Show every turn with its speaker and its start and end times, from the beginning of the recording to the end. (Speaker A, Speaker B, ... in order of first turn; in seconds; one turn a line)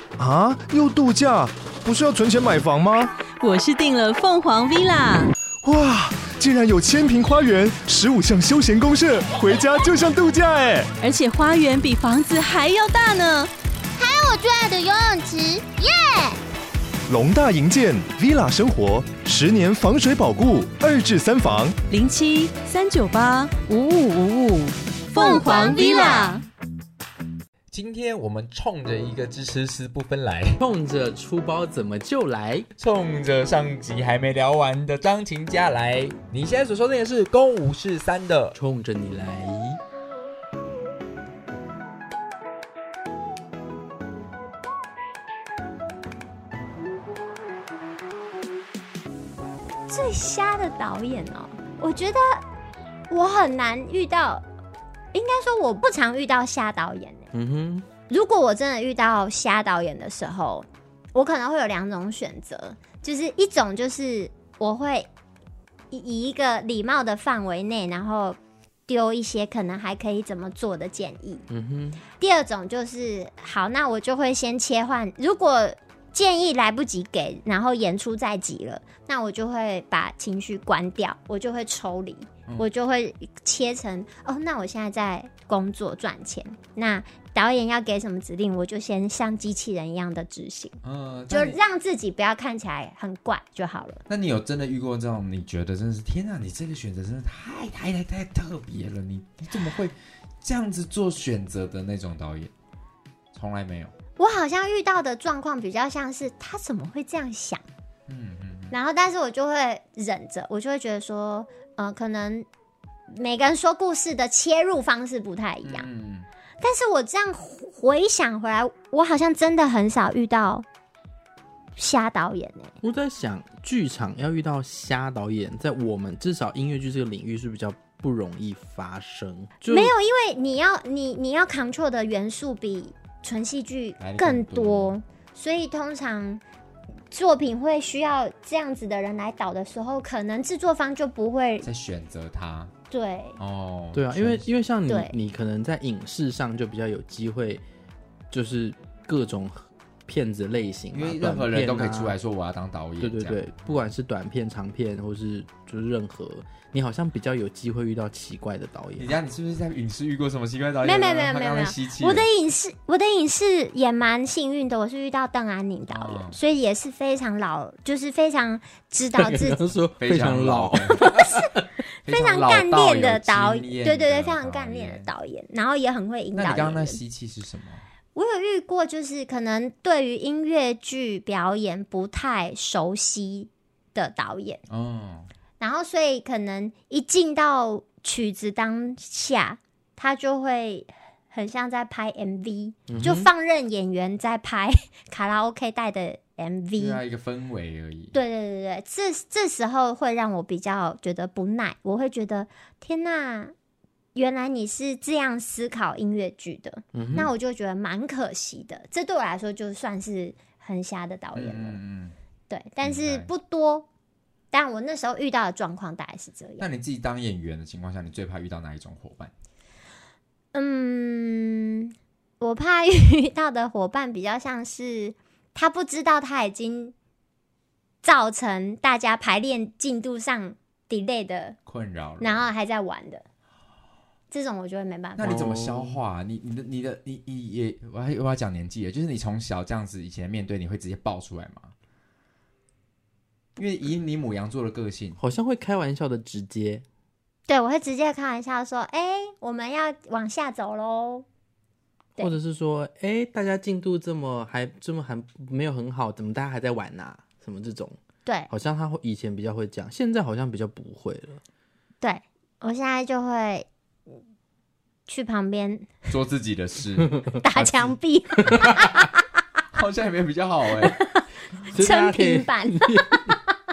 Speaker A: 0.2-3.1
Speaker B: 3.4-5.3
Speaker A: 5.6-10.9
Speaker B: 11.0-13.5
Speaker C: 14.0-16.4
Speaker A: 17.1-21.8
Speaker B: 21.9-26.4
Speaker C: 25.2-26.3
Speaker D: 27.7-30.6
Speaker E: 30.6-32.7
Speaker D: 32.8-38.5
Speaker E: 38.5-39.8
Speaker C: 49.9-52.4
Speaker C: 53.1-54.4
Speaker C: 55.1-57.3
Speaker E: 57.3-57.9
Speaker C: 58.1-65.1
Speaker C: 65.9-71.4
Speaker E: 71.5-72.0
Speaker C: 72.2-90.8
Speaker D: 90.8-91.6
Speaker C: 91.3-94.0
Speaker D: 94.1-102.5
Speaker D: 103.3-103.9
Speaker C: 104.2-107.6
Speaker D: 108.1-108.7
Speaker C: 108.7-112.5
Speaker C: 113.1-115.9
Speaker D: 115.6-116.3
Speaker C: 116.6-120.6
Speaker C: 121.8-122.8
Speaker E: 122.8-129.9
Speaker C: 129.7-136.4
Speaker D: 134.0-134.9
Speaker C: 137.1-141.7
Speaker D: 141.6-142.7
Speaker C: 142.9-143.4
Speaker D: 143.4-144.4
Speaker E: 143.9-147.6
Speaker C: 144.9-145.1
Speaker E: 148.3-152.2
Speaker D: 150.9-153.8
Speaker E: 153.0-159.2
Speaker D: 159.0-162.3
Speaker C: 160.8-169.6
Speaker D: 165.9-166.4
Speaker E: 169.2-171.6
Speaker D: 170.0-171.1
Speaker C: 171.0-171.5
Speaker D: 172.0-175.1
Speaker C: 172.1-177.0
Speaker D: 176.3-177.8
Speaker C: 178.1-184.6
Speaker D: 184.7-185.3
Speaker C: 185.6-197.0
Speaker E: 192.9-193.3
Speaker D: 196.8-198.2
Speaker C: 198.1-203.5
Speaker C: 204.1-211.8
Speaker E: 206.9-207.3
Speaker D: 211.3-212.1
Speaker C: 212.5-213.8
Speaker D: 212.8-213.3
Speaker C: 214.5-216.7
Speaker D: 216.6-219.3
Speaker C: 220.5-226.9
Speaker C: 228.0-231.6
Speaker D: 231.7-232.4
Speaker C: 232.2-233.2
Speaker C: 234.3-235.3
Speaker D: 235.2-241.7
Speaker E: 235.2-236.0
Speaker D: 243.6-245.2
Speaker E: 245.2-246.8
Speaker C: 247.5-251.2
Speaker E: 252.2-258.0
Speaker E: 258.5-261.4
Speaker C: 262.0-263.7
Speaker C: 265.1-265.9
Speaker D: 266.1-267.9
Speaker E: 267.1-267.4
Speaker C: 267.4-269.1
Speaker E: 268.4-268.7
Speaker D: 269.7-270.9
Speaker C: 270.9-271.2
Speaker E: 271.7-273.4
Speaker C: 271.8-273.5